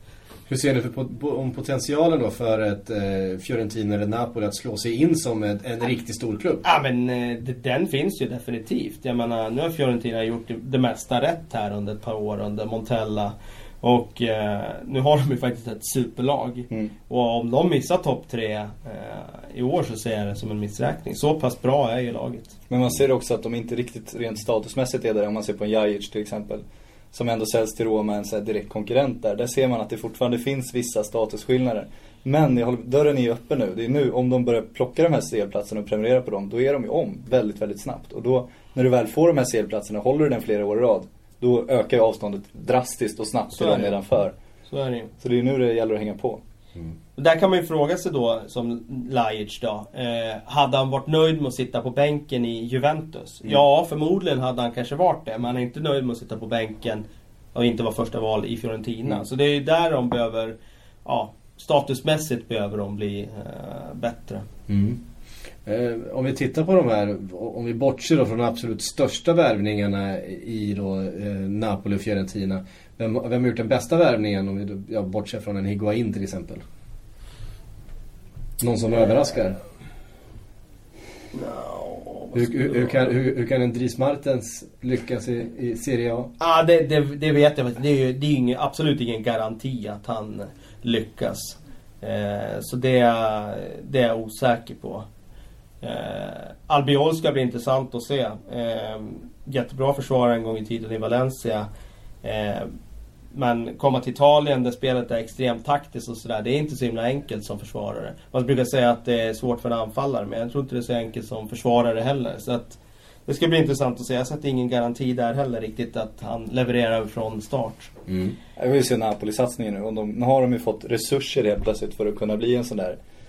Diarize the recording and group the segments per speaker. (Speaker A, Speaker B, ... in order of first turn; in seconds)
Speaker A: 0.5-6.6, 64.7-65.0, 65.7-76.6, 78.6-79.6, 82.3-86.3, 118.1-118.3
Speaker B: 6.6-22.6, 43.5-44.0, 44.7-45.1, 47.2-64.5, 81.3-83.0, 86.4-95.1, 95.8-101.7, 102.2-102.7, 103.3-117.9
Speaker C: 22.7-44.3, 45.2-46.4, 118.6-123.0